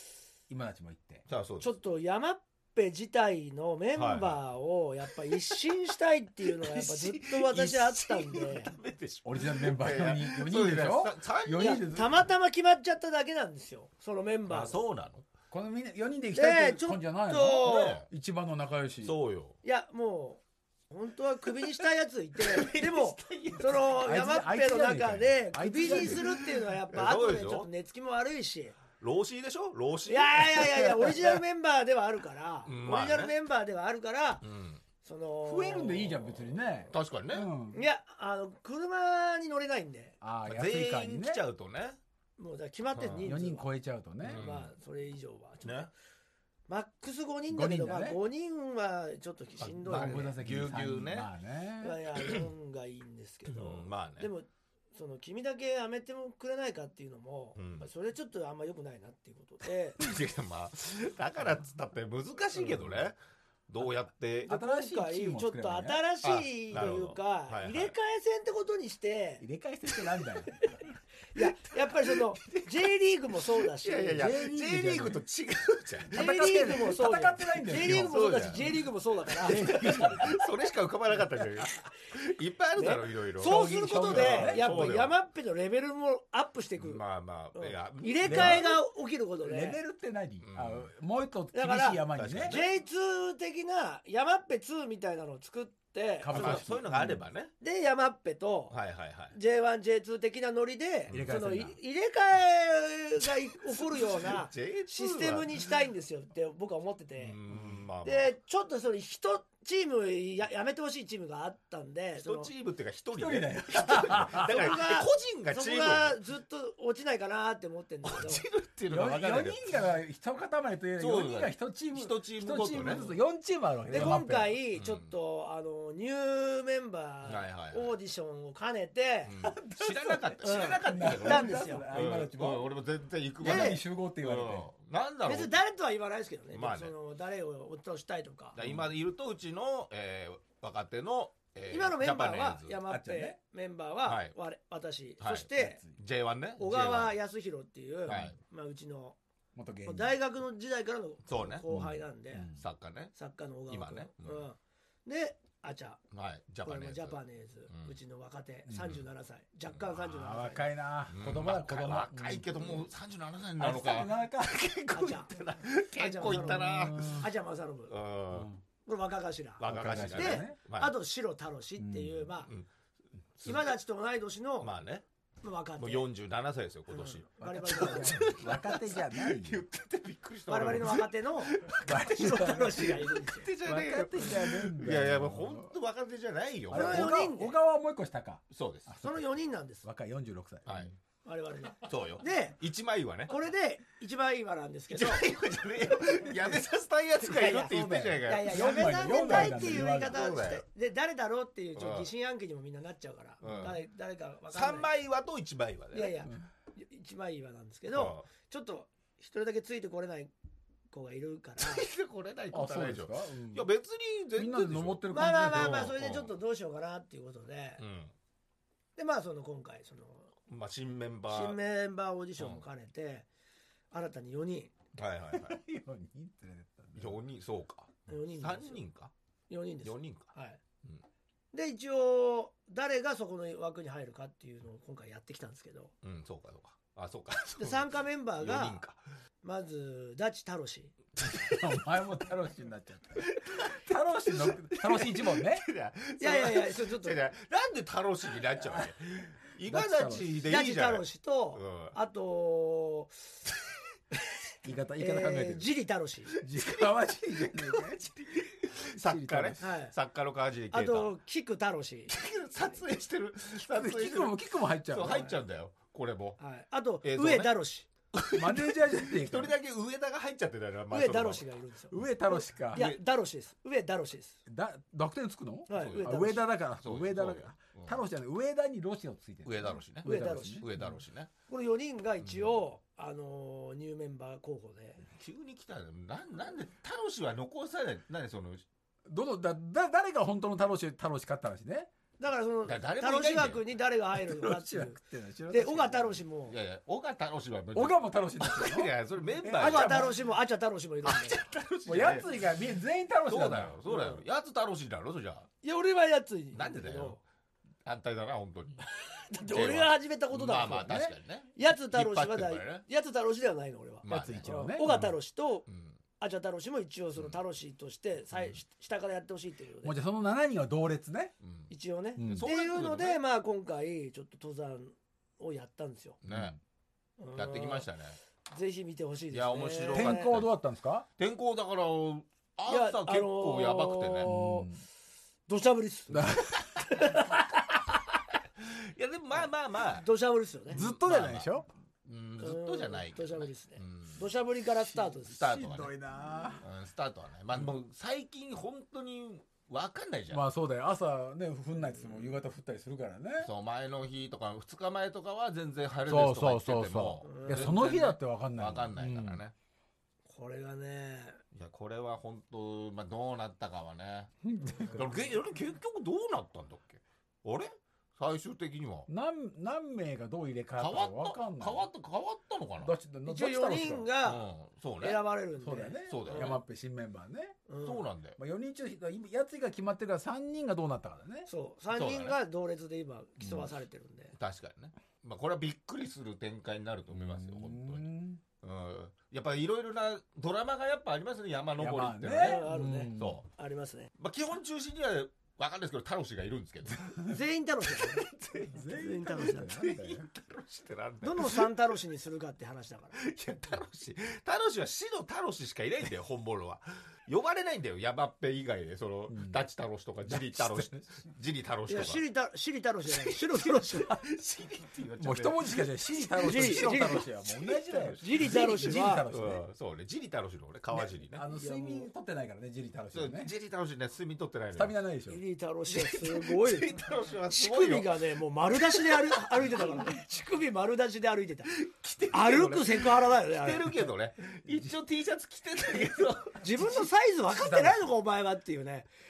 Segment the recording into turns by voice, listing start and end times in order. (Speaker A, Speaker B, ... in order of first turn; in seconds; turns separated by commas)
Speaker A: 0.5-1.2, Speaker B: 1.3-1.7, Speaker C: 1.6-8.7, Speaker B: 3.9-4.4, Speaker B: 6.6-11.9, Speaker A: 9.2-12.2, Speaker C: 11.6-14.8, Speaker B: 14.5-15.2, Speaker A: 15.5-19.1, Speaker C: 16.3-18.0, Speaker B: 17.6-18.1, Speaker B: 19.0-19.6, Speaker C: 19.6-28.7, Speaker B: 22.5-23.9, Speaker A: 24.0-26.2, Speaker B: 26.0-27.7, Speaker B: 29.0-31.1, Speaker C: 30.1-34.4, Speaker B: 32.6-33.3, Speaker B: 34.4-34.8, Speaker C: 35.0-36.1, Speaker A: 35.5-37.8, Speaker B: 35.9-37.5, Speaker C: 37.7-40.1, Speaker A: 40.2-41.4, Speaker B: 40.4-42.0, Speaker C: 42.4-43.6, Speaker B: 42.9-43.3, Speaker A: 43.2-44.4, Speaker B: 44.2-44.7, Speaker C: 44.3-45.9, Speaker B: 45.6-45.9, Speaker C: 46.7-50.2, Speaker A: 47.5-48.2, Speaker B: 49.6-51.3, Speaker A: 49.9-52.0, Speaker C: 51.8-60.0, Speaker B: 53.5-54.3, Speaker B: 57.5-57.9, Speaker B: 60.0-63.2, Speaker C: 62.6-62.9, Speaker B: 63.7-64.5, Speaker A: 64.4-66.0, Speaker C: 64.5-69.4, Speaker B: 66.2-67.9, Speaker A: 69.4-70.7, Speaker C: 71.3-74.2, Speaker B: 73.8-76.2, Speaker A: 74.2-75.2, Speaker A: 76.1-78.8, Speaker C: 76.1-80.3, Speaker B: 77.9-78.7, Speaker A: 79.4-80.3, Speaker B: 79.7-85.1, Speaker C: 82.8-87.0, Speaker A: 83.4-84.7, Speaker B: 86.8-88.7, Speaker C: 87.5-89.8, Speaker A: 88.2-88.8, Speaker A: 89.4-92.6, Speaker B: 90.4-90.9, Speaker C: 91.5-96.7, Speaker B: 92.1-92.7, Speaker A: 96.2-97.2, Speaker B: 96.3-97.5, Speaker C: 97.6-98.8, Speaker B: 98.7-99.3, Speaker C: 99.3-107.3, Speaker A: 101.1-101.8, Speaker B: 103.8-105.7, Speaker B: 107.2-108.3, Speaker A: 107.5-107.8, Speaker C: 108.0-112.5, Speaker B: 112.2-116.2, Speaker A: 113.1-114.7, Speaker C: 114.4-118.4, Speaker B: 118.0-119.6, Speaker A: 118.9-124.6, Speaker B: 121.0-123.1, Speaker C: 123.9-129.3, Speaker B: 124.7-125.1, Speaker B: 127.2-127.9, Speaker B: 129.2-135.6, Speaker A: 129.4-132.7, Speaker C: 130.4-131.9, Speaker A: 133.4-134.7, Speaker C: 133.4-133.8, Speaker C: 135.2-138.6, Speaker B: 136.5-136.9, Speaker B: 138.6-142.8, Speaker A: 138.6-138.9, Speaker C: 141.7-145.8, Speaker A: 142.9-143.4, Speaker B: 144.0-144.3, Speaker B: 145.2-147.2, Speaker A: 145.6-146.0, Speaker C: 146.6-149.2, Speaker B: 148.1-148.3, Speaker A: 149.5-150.1, Speaker C: 149.8-152.5, Speaker B: 151.2-151.6, Speaker A: 151.7-152.6, Speaker B: 152.6-153.1, Speaker C: 153.1-156.0, Speaker B: 153.7-154.4, Speaker B: 156.1-157.9, Speaker C: 156.6-160.6, Speaker A: 158.7-159.0, Speaker B: 159.7-160.1, Speaker A: 160.1-162.9, Speaker B: 161.1-167.3, Speaker A: 163.6-164.7, Speaker C: 164.9-165.3, Speaker C: 165.9-167.9, Speaker A: 166.3-167.3, Speaker B: 167.9-168.5, Speaker A: 168.3-168.6, Speaker C: 168.8-172.5, Speaker B: 169.6-170.9, Speaker A: 169.7-170.6, Speaker A: 171.8-172.2, Speaker C: 173.4-174.7, Speaker B: 173.4-173.7, Speaker B: 174.6-175.0, Speaker C: 175.4-176.0, Speaker B: 175.8-181.9, Speaker C: 176.9-178.3, Speaker A: 177.4-179.6, Speaker C: 180.5-181.5, Speaker A: 181.8-183.0, Speaker C: 182.1-183.5, Speaker B: 183.1-187.2, Speaker A: 183.6-185.7, Speaker A: 186.7-189.2, Speaker C: 186.7-187.5, Speaker B: 188.5-188.9, Speaker C: 189.0-189.8, Speaker A: 189.8-190.9, Speaker B: 190.7-190.9, Speaker C: 191.2-192.6, Speaker B: 191.8-193.3, Speaker C: 193.3-195.3, Speaker B: 194.9-200.6, Speaker C: 197.3-197.7, Speaker A: 197.3-200.2, Speaker C: 198.2-204.9, Speaker B: 201.8-202.1, Speaker B: 203.4-203.8, Speaker B: 204.5-206.2, Speaker C: 205.9-210.3, Speaker B: 207.9-208.2, Speaker C: 210.9-211.8, Speaker B: 211.6-216.3, Speaker A: 212.5-213.7, Speaker A: 214.4-215.9, Speaker C: 215.1-217.8, Speaker B: 217.8-218.1, Speaker C: 219.0-220.3, Speaker B: 220.5-221.6, Speaker C: 221.3-223.3, Speaker B: 222.4-222.6, Speaker C: 223.9-224.7, Speaker B: 224.9-225.6, Speaker A: 225.3-227.2, Speaker B: 226.9-229.1, Speaker C: 228.1-228.8, Speaker C: 229.5-230.6, Speaker B: 229.8-230.3, Speaker C: 231.5-235.9, Speaker B: 236.0-239.0, Speaker C: 237.6-238.8, Speaker C: 239.4-240.9, Speaker A: 241.2-245.7, Speaker B: 243.2-251.9, Speaker C: 246.2-247.2, Speaker A: 248.6-248.9, Speaker A: 249.7-250.5, Speaker C: 250.5-253.2, Speaker A: 254.6-255.7, Speaker C: 255.0-256.3, Speaker A: 256.4-258.1, Speaker B: 256.4-256.9, Speaker B: 257.4-261.1, Speaker A: 259.0-259.6, Speaker C: 259.6-259.9, Speaker C: 260.7-262.1, Speaker B: 262.1-266.4, Speaker A: 263.7-265.3, Speaker C: 266.4-267.9, Speaker B: 267.0-267.5, Speaker B: 268.1-271.4, Speaker A: 268.3-269.5, Speaker C: 270.9-274.4, Speaker A: 271.9-272.9, Speaker B: 272.7-273.0, Speaker A: 274.4-280.9, Speaker C: 275.7-276.4, Speaker B: 275.7-278.0, Speaker B: 279.4-281.3, Speaker C: 280.0-280.6, Speaker C: 281.5-285.0, Speaker B: 282.2-282.6, Speaker B: 285.2-288.6, Speaker A: 289.1-291.9, Speaker C: 292.2-296.5, Speaker B: 292.6-293.6, Speaker A: 294.2-296.2, Speaker B: 296.5-300.2, Speaker A: 297.7-298.9, Speaker A: 299.4-300.1, Speaker C: 299.5-301.4, Speaker B: 301.0-302.3, Speaker A: 301.9-303.8, Speaker B: 303.3-305.5, Speaker C: 303.9-304.2, Speaker C: 305.6-307.2, Speaker B: 306.5-307.2, Speaker B: 307.8-308.8, Speaker C: 309.4-310.9, Speaker B: 309.4-312.8, Speaker A: 310.6-311.1, Speaker C: 311.6-315.6, Speaker B: 314.0-315.1, Speaker A: 314.1-314.9, Speaker B: 315.7-316.0, Speaker C: 316.2-319.9, Speaker A: 319.8-321.3, Speaker B: 321.4-321.7, Speaker C: 321.7-326.2, Speaker A: 322.2-322.4, Speaker B: 322.3-323.2, Speaker B: 326.2-326.6, Speaker A: 326.3-326.6, Speaker C: 327.2-327.9, Speaker B: 327.4-328.2, Speaker C: 328.5-330.4, Speaker B: 329.3-330.5, Speaker A: 329.9-331.1, Speaker B: 331.2-334.3, Speaker C: 332.7-334.7, Speaker A: 334.2-334.8, Speaker C: 335.5-336.3, Speaker A: 336.1-337.1, Speaker C: 336.9-337.3, Speaker B: 338.6-340.1, Speaker C: 340.0-340.8, Speaker B: 340.7-341.5, Speaker A: 340.7-341.7, Speaker B: 342.1-344.2, Speaker C: 342.4-345.4, Speaker A: 344.9-346.6, Speaker B: 345.3-346.0, Speaker B: 346.6-350.5, Speaker A: 350.3-353.5, Speaker B: 353.4-359.5, Speaker A: 356.1-359.4, Speaker C: 357.2-357.8, Speaker C: 360.3-361.4, Speaker B: 361.5-364.3, Speaker A: 364.4-365.1, Speaker B: 364.9-369.1, Speaker A: 369.1-371.8, Speaker B: 370.8-372.9, Speaker A: 372.8-374.1, Speaker C: 373.2-374.4, Speaker B: 374.2-375.2, Speaker C: 375.0-376.6, Speaker A: 375.6-377.6, Speaker B: 376.1-376.6, Speaker C: 377.7-378.0, Speaker B: 377.8-378.4, Speaker A: 378.4-381.5, Speaker C: 381.5-384.3, Speaker B: 381.9-382.4, Speaker B: 384.4-388.0, Speaker A: 387.1-388.4, Speaker B: 388.6-393.4, Speaker A: 391.8-393.4, Speaker C: 392.4-394.1, Speaker B: 394.2-397.0, Speaker A: 397.1-397.3, Speaker C: 397.3-398.2, Speaker B: 398.2-398.8, Speaker A: 398.7-400.2, Speaker C: 399.0-399.7, Speaker B: 399.3-401.7, Speaker C: 401.2-403.2, Speaker B: 403.2-412.2, Speaker A: 409.3-409.6, Speaker A: 410.2-411.0, Speaker C: 411.9-414.1, Speaker B: 413.3-421.4, Speaker A: 415.2-419.6, Speaker C: 416.4-417.2, Speaker C: 418.2-419.2, Speaker A: 420.9-423.5, Speaker C: 421.5-422.1, Speaker B: 423.1-425.0, Speaker A: 424.7-425.4, Speaker C: 425.3-426.9, Speaker B: 425.9-428.2, Speaker C: 427.5-431.7, Speaker B: 429.0-430.1, Speaker B: 431.7-436.6, Speaker C: 432.3-433.8, Speaker C: 436.6-439.1, Speaker A: 437.5-438.0